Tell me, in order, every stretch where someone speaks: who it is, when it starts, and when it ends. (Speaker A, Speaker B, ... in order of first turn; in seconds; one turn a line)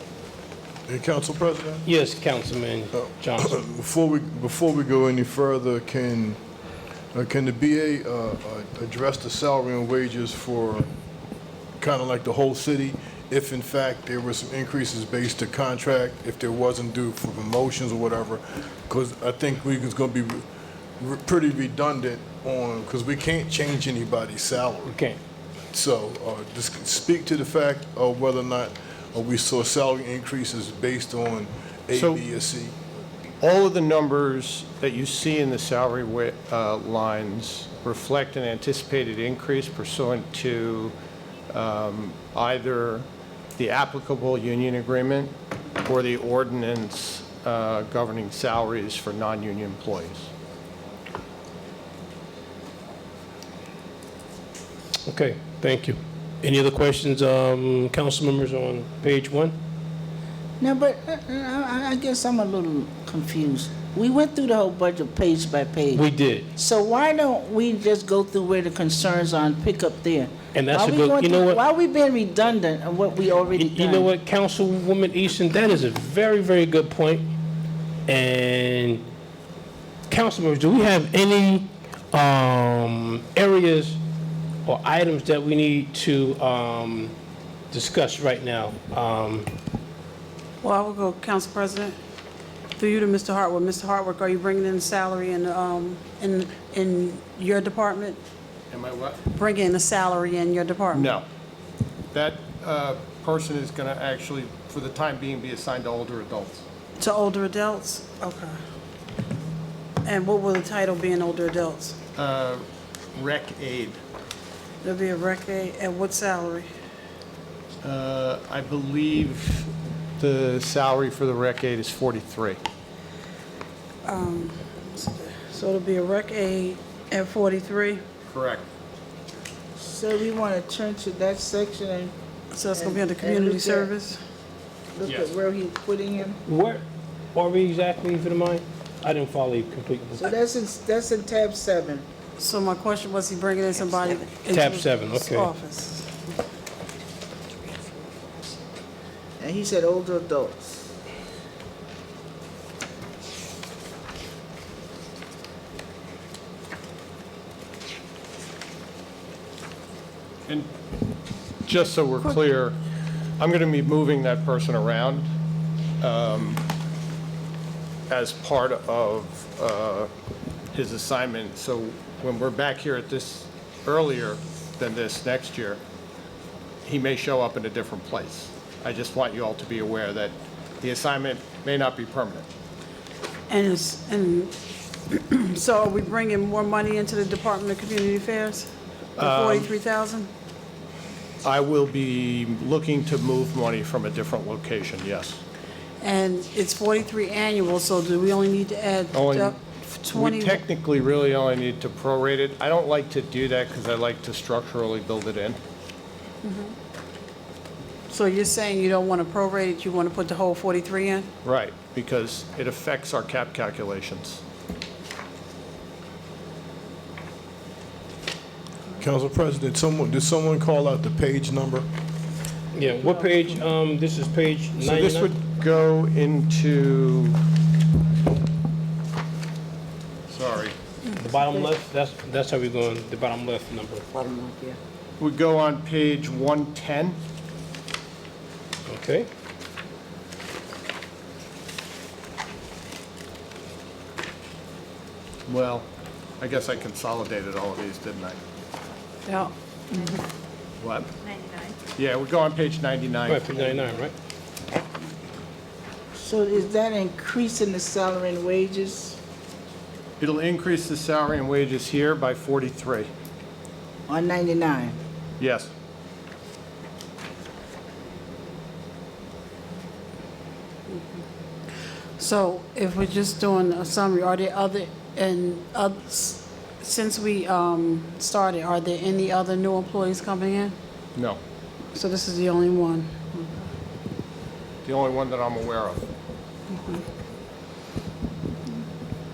Speaker A: 0.9-1.9
Speaker B: 1.8-3.5
Speaker A: 3.0-6.4
Speaker A: 7.1-10.9
Speaker A: 11.8-20.4
Speaker A: 21.0-24.9
Speaker B: 24.9-25.2
Speaker A: 25.7-32.8
Speaker C: 31.9-32.2
Speaker C: 33.4-40.9
Speaker C: 41.5-43.0
Speaker C: 43.6-45.3
Speaker C: 45.8-50.3
Speaker B: 55.0-59.5
Speaker D: 60.6-74.1
Speaker B: 65.9-66.5
Speaker B: 70.5-71.6
Speaker B: 73.5-77.3
Speaker B: 78.1-79.0
Speaker B: 80.1-84.0
Speaker B: 84.6-87.1
Speaker B: 87.7-89.5
Speaker E: 90.6-92.0
Speaker E: 92.8-98.2
Speaker C: 98.7-99.2
Speaker E: 99.3-101.1
Speaker C: 100.9-101.2
Speaker C: 102.1-106.6
Speaker E: 107.0-108.6
Speaker E: 110.0-112.0
Speaker C: 112.2-112.6
Speaker C: 113.1-114.0
Speaker E: 114.8-116.7
Speaker C: 117.8-122.6
Speaker E: 124.0-128.0
Speaker C: 128.3-128.6
Speaker D: 129.8-132.1
Speaker E: 132.5-134.2
Speaker D: 132.7-133.9
Speaker D: 134.9-136.4
Speaker C: 135.0-135.3
Speaker B: 136.4-136.8
Speaker B: 137.3-140.2
Speaker D: 140.2-142.0
Speaker E: 142.4-146.1
Speaker B: 144.4-145.5
Speaker D: 149.4-150.9
Speaker C: 161.7-162.8
Speaker C: 163.4-165.2
Speaker C: 166.0-166.6
Speaker C: 168.1-170.1
Speaker C: 170.7-175.8
Speaker C: 176.8-182.5
Speaker E: 183.5-184.6
Speaker E: 185.1-190.3
Speaker C: 189.2-189.7
Speaker C: 191.4-195.4
Speaker E: 196.0-200.6
Speaker C: 199.1-199.6
Speaker C: 200.1-205.6
Speaker E: 206.4-206.7
Speaker E: 208.1-211.3
Speaker C: 211.4-214.4
Speaker A: 219.0-221.8
Speaker B: 222.7-225.3
Speaker C: 224.8-227.4
Speaker C: 230.3-230.7
Speaker B: 231.1-234.1
Speaker D: 234.4-234.7
Speaker C: 235.2-237.2
Speaker B: 238.9-239.3
Speaker C: 245.5-245.8
Speaker C: 246.4-248.4
Speaker E: 249.2-250.2
Speaker C: 250.8-251.1
Speaker C: 251.9-254.0
Speaker B: 253.3-254.1
Speaker D: 256.1-259.2
Speaker C: 260.2-263.1
Speaker D: 264.1-265.0
Speaker C: 265.4-265.7
Speaker E: 272.2-280.7
Speaker E: 281.9-283.7
Speaker C: 284.8-286.0
Speaker E: 286.7-287.0